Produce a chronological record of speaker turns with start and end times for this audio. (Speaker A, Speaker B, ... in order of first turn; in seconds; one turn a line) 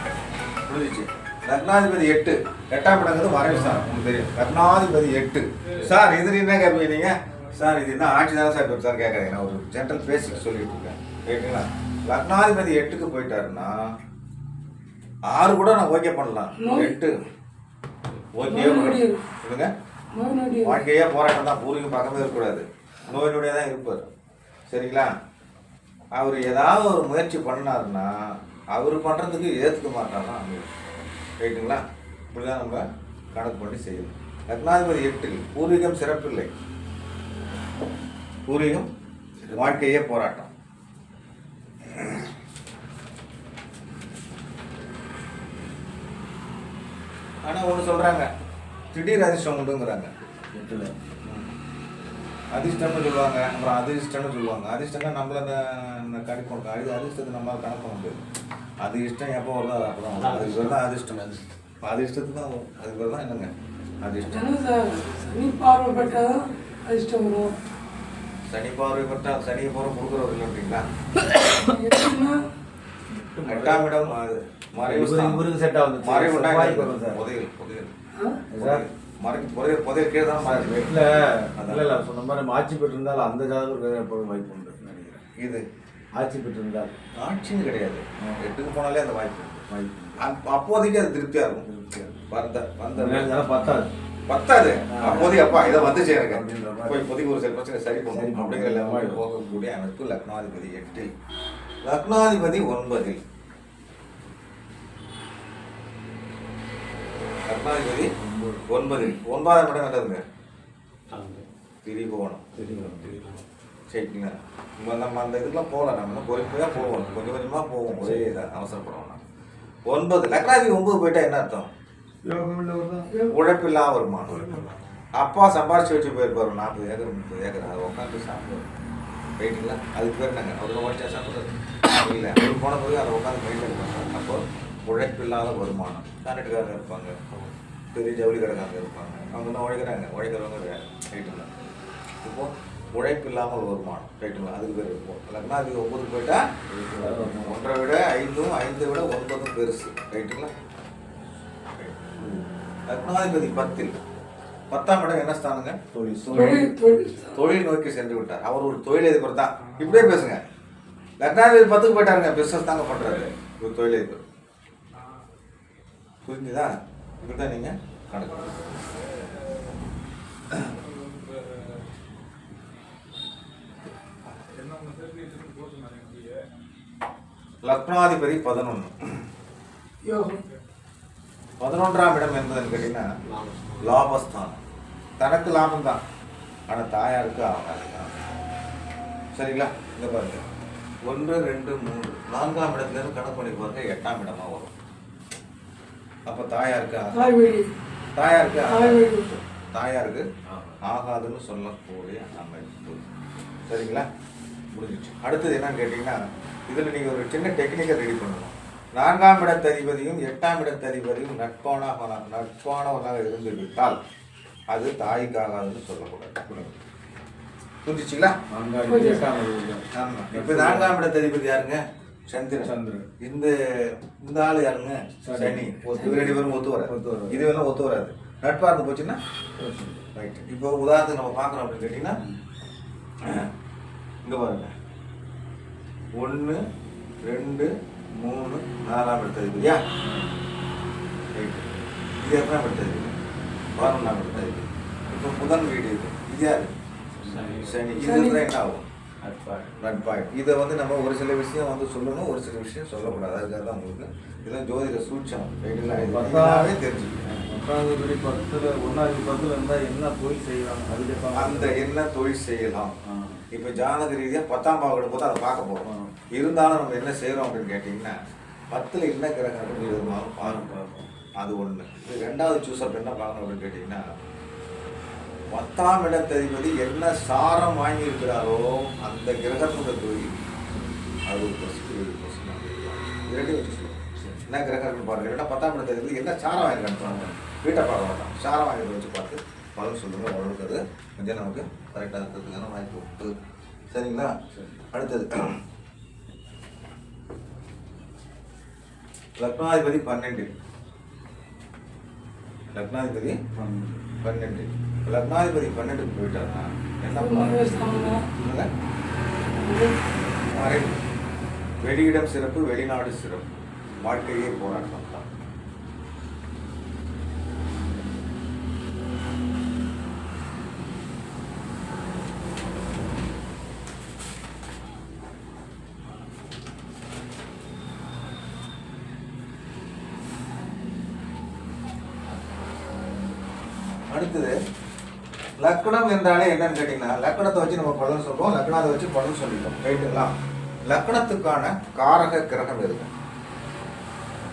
Speaker A: 0.7-13.8
Speaker A: 15.3-17.1
Speaker B: 16.6-16.9
Speaker A: 18.3-19.7
Speaker B: 18.4-19.2
Speaker B: 20.1-20.8
Speaker A: 20.6-24.1
Speaker A: 24.7-25.1
Speaker A: 26.1-30.7
Speaker A: 31.4-36.5
Speaker A: 38.5-38.9
Speaker A: 39.5-40.5
Speaker A: 47.4-48.3
Speaker A: 48.9-50.1
Speaker C: 50.5-50.9
Speaker A: 52.5-58.2
Speaker A: 58.8-61.2
Speaker D: 60.1-61.4
Speaker A: 61.8-64.5
Speaker B: 64.2-67.5
Speaker A: 68.5-70.8
Speaker B: 71.5-72.5
Speaker C: 73.1-74.1
Speaker A: 73.4-75.5
Speaker C: 74.8-77.2
Speaker A: 76.0-77.9
Speaker B: 78.2-78.4
Speaker C: 78.5-78.8
Speaker A: 78.6-82.0
Speaker C: 80.4-85.2
Speaker A: 85.4-85.6
Speaker C: 86.1-86.9
Speaker A: 87.1-89.7
Speaker C: 89.7-90.2
Speaker A: 90.2-91.7
Speaker C: 91.6-92.2
Speaker A: 92.3-93.8
Speaker C: 92.9-93.9
Speaker A: 94.3-101.1
Speaker C: 94.9-97.1
Speaker B: 95.2-96.0
Speaker C: 98.1-99.2
Speaker A: 101.8-103.2
Speaker A: 107.4-108.1
Speaker C: 108.1-108.7
Speaker A: 108.7-110.2
Speaker D: 111.1-111.5
Speaker A: 111.8-112.5
Speaker C: 112.5-113.2
Speaker D: 112.6-113.4
Speaker A: 113.9-119.2
Speaker D: 116.6-117.3
Speaker C: 118.0-118.3
Speaker A: 119.8-121.7
Speaker C: 122.2-123.1
Speaker B: 123.1-123.3
Speaker A: 123.3-124.5
Speaker C: 124.3-124.7
Speaker D: 124.5-124.7
Speaker A: 125.1-128.7
Speaker A: 129.4-137.2
Speaker A: 137.9-141.5
Speaker A: 142.2-146.4
Speaker C: 146.7-147.6
Speaker A: 147.0-150.5
Speaker A: 151.8-152.1
Speaker C: 152.2-152.5
Speaker A: 152.9-153.9
Speaker A: 154.7-156.6
Speaker C: 155.9-156.7
Speaker B: 156.3-157.4
Speaker A: 157.3-160.4
Speaker A: 161.2-164.2
Speaker A: 166.2-168.8
Speaker A: 177.6-178.9
Speaker B: 180.1-180.4
Speaker A: 181.6-183.1
Speaker D: 183.2-184.0
Speaker A: 183.8-184.6
Speaker A: 185.2-186.0
Speaker A: 186.7-188.2
Speaker A: 189.3-190.4
Speaker A: 191.0-194.7
Speaker A: 196.3-197.3
Speaker B: 197.1-197.7
Speaker A: 198.1-200.2
Speaker B: 198.7-199.4
Speaker C: 200.5-200.8
Speaker A: 200.8-203.0
Speaker A: 203.7-204.1
Speaker A: 204.7-214.0
Speaker A: 214.7-216.6
Speaker A: 217.8-218.4
Speaker C: 218.5-221.0
Speaker B: 218.9-219.2
Speaker A: 219.9-229.2
Speaker C: 222.6-223.1
Speaker C: 225.2-227.4
Speaker B: 225.9-226.4
Speaker C: 229.6-230.1
Speaker A: 230.1-232.2
Speaker A: 233.2-233.5
Speaker A: 234.2-234.7
Speaker A: 236.1-236.6
Speaker A: 237.2-239.8
Speaker C: 240.0-240.4
Speaker A: 241.3-241.7
Speaker A: 242.2-243.1
Speaker C: 243.7-244.5
Speaker A: 243.7-246.7
Speaker C: 247.2-247.8
Speaker D: 247.2-247.8
Speaker A: 247.6-248.9
Speaker B: 248.0-248.4
Speaker C: 249.2-250.0
Speaker A: 249.8-257.2
Speaker C: 255.8-261.8
Speaker A: 261.3-262.9
Speaker C: 263.0-263.4
Speaker A: 263.5-268.1
Speaker C: 265.8-266.1
Speaker A: 268.7-270.8
Speaker C: 269.7-271.1
Speaker A: 271.4-274.0
Speaker A: 275.5-280.3
Speaker A: 281.2-293.3
Speaker C: 287.0-287.4
Speaker A: 293.9-294.3
Speaker C: 294.5-294.8
Speaker A: 294.9-295.5
Speaker A: 299.4-300.5
Speaker A: 302.7-303.4
Speaker C: 303.5-304.0
Speaker A: 304.2-308.7
Speaker B: 307.1-308.2
Speaker B: 309.6-310.0
Speaker A: 310.5-311.0
Speaker A: 311.8-313.5
Speaker A: 314.0-315.2
Speaker A: 334.1-334.5
Speaker A: 335.6-340.3
Speaker A: 340.9-343.1